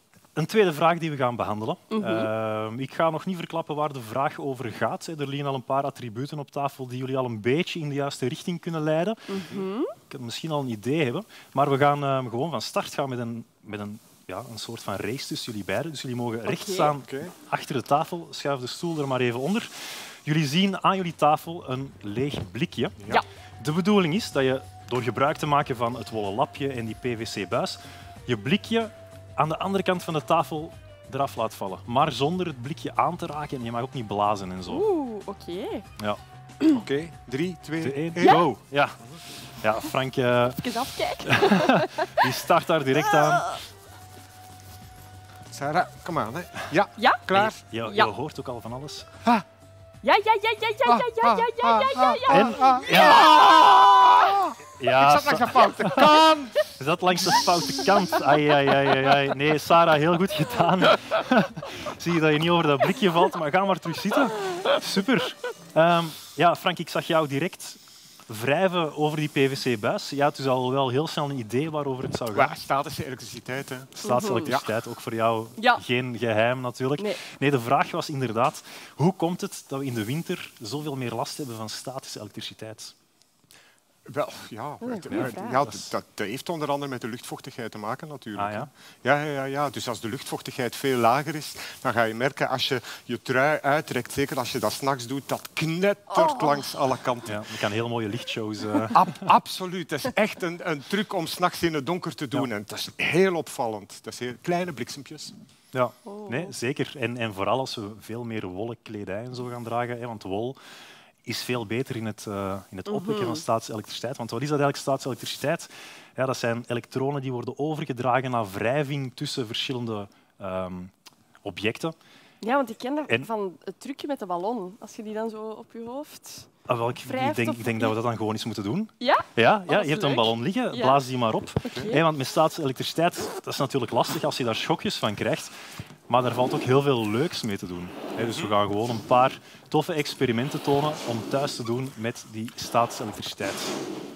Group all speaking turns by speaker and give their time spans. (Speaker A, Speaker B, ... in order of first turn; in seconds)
Speaker A: 0.3-34.9, 37.8-43.6, 47.3-49.1, 52.3-53.4, 54.8-56.1, 56.7-72.5, 74.0-82.9, 85.1-85.9, 88.3-88.7, 97.3-99.3, 105.7-110.6, 111.2-120.9, 121.4-122.0, 126.7-135.5, 136.1-143.7
Speaker B: 1.9-2.3, 9.3-9.9, 16.4-16.9, 34.7-35.9, 38.2-38.4, 40.5-43.6, 47.0-47.2, 47.8-48.1, 50.0-53.3, 74.0-74.5, 75.6-75.8, 84.8-85.7, 96.1-96.7, 106.0-106.5, 112.9-113.4, 122.4-126.5, 127.0-127.9, 129.0-131.0, 131.6-132.0
Speaker C: 17.0-17.3, 36.7-38.4, 45.5-47.6, 50.9-56.6, 72.3-74.7, 84.0-97.4, 98.9-105.3, 138.2-138.5